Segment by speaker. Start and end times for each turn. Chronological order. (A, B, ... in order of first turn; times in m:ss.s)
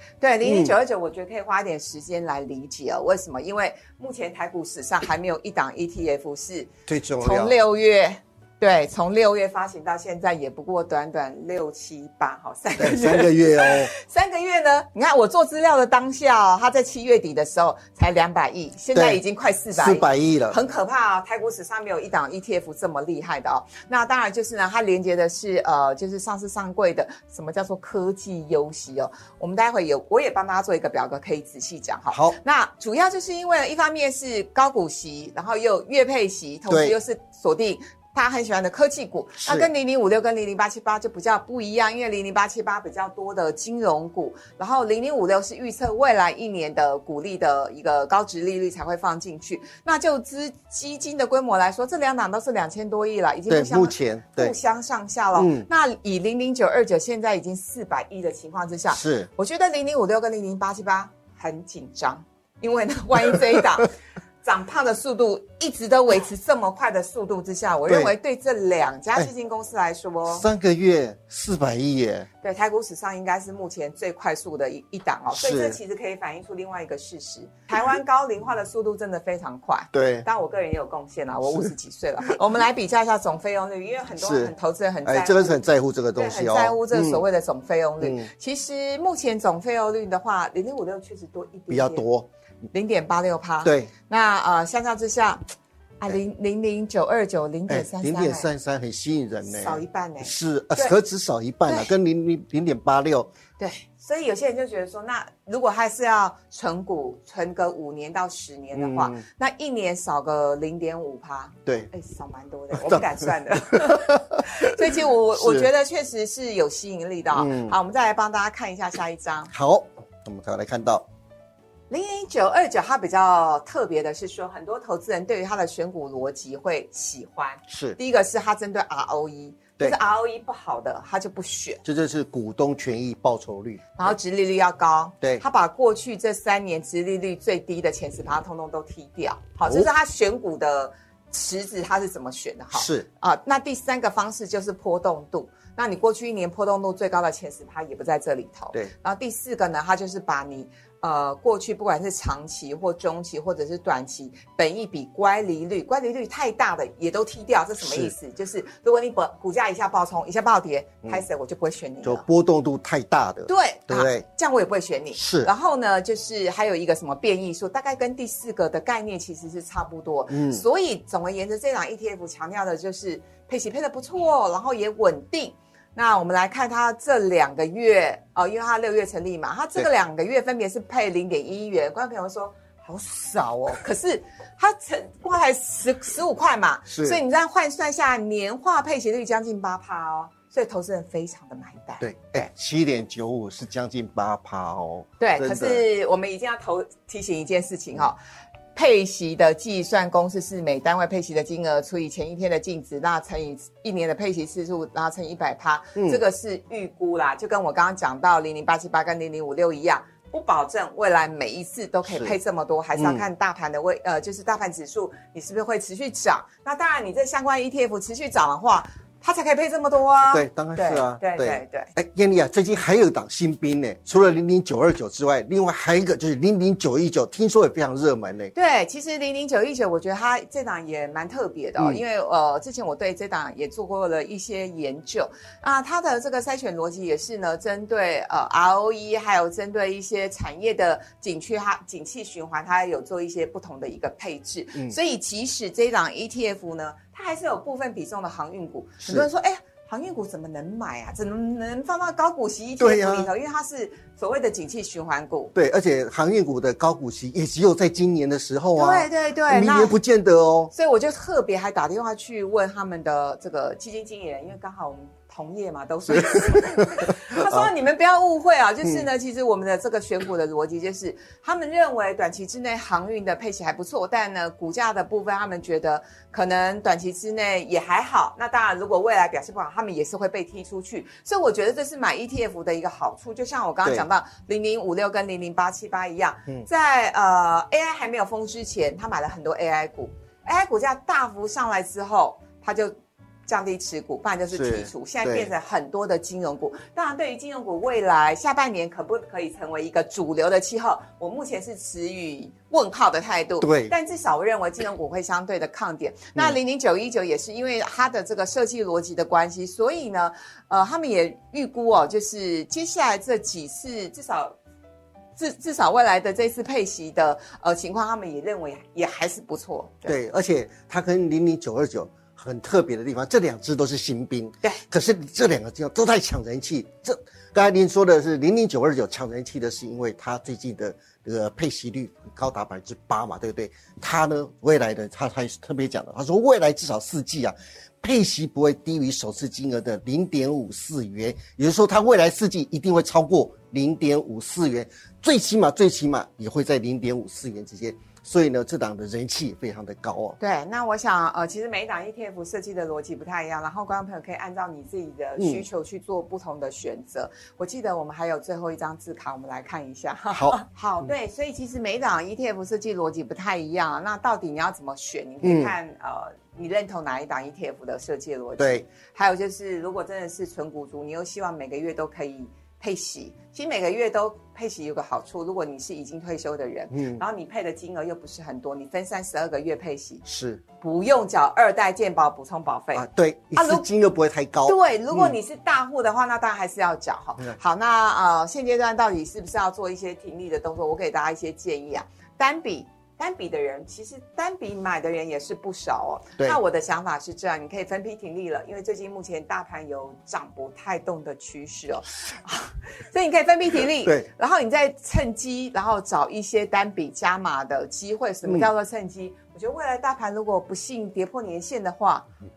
0:00.2-1:10.5 A
0:00.4-0:00.8 B
0:06.9-0:07.5 B
0:12.8-0:13.9 B
0:19.0-0:19.2 B
0:19.8-0:20.6 B
0:32.1-0:32.4 B
0:36.7-0:37.0 B
0:39.4-0:39.7 B
0:53.5-0:54.6 B
0:55.4-0:55.7 B
0:58.9-0:59.3 B
1:07.9-1:08.1 B
1:10.3-1:12.3 B
1:12.4-1:25.6 A
1:15.3-1:15.8 B
1:19.9-1:20.3 B
1:24.2-1:24.5 B
1:25.0-1:27.2 B
1:26.2-1:32.1 A
1:28.0-1:28.3 B
1:31.7-1:32.3 B
1:32.7-1:35.4 A
1:33.6-1:33.9 B
1:36.0-1:38.5 A
1:37.7-1:43.3 B
1:39.4-1:41.0 A
1:43.6-1:59.5 A
1:48.7-1:49.2 B
1:52.7-1:54.8 B
1:55.4-1:55.7 B
1:57.3-1:57.7 B
1:59.5-2:01.1 B
2:01.9-2:11.8 A
2:07.7-2:08.0 B
2:11.8-2:14.1 B
2:14.0-2:42.2 A
2:22.7-2:23.1 B
2:37.8-2:38.1 B
2:42.0-2:44.2 B
2:43.5-3:12.4 A
2:45.2-2:45.5 B
2:50.3-2:50.6 B
3:06.9-3:07.2 B
3:12.0-3:15.8 B
3:15.2-3:18.2 A
3:18.8-3:41.9 A
3:26.0-3:26.2 B
3:32.1-3:32.4 B
3:33.0-3:33.3 B
3:40.3-3:48.5 B
3:48.5-4:15.5 A
4:09.0-4:09.3 B
4:12.8-4:13.3 B
4:15.6-4:20.7 B
4:18.8-4:20.0 A
4:20.7-4:53.0 A
4:26.1-4:27.7 B
4:53.5-5:14.6 A
4:54.5-4:55.5 B
5:03.6-5:03.9 B
5:15.4-5:20.2 A
5:20.1-5:50.4 B
5:50.4-6:20.2 A
5:55.4-5:55.6 B
6:00.3-6:00.6 B
6:05.4-6:05.8 B
6:08.6-6:08.8 B
6:16.9-6:17.2 B
6:20.2-6:20.6 B
6:20.8-6:23.8 A
6:22.9-6:25.4 B
6:24.6-6:52.3 A
6:44.0-6:44.3 B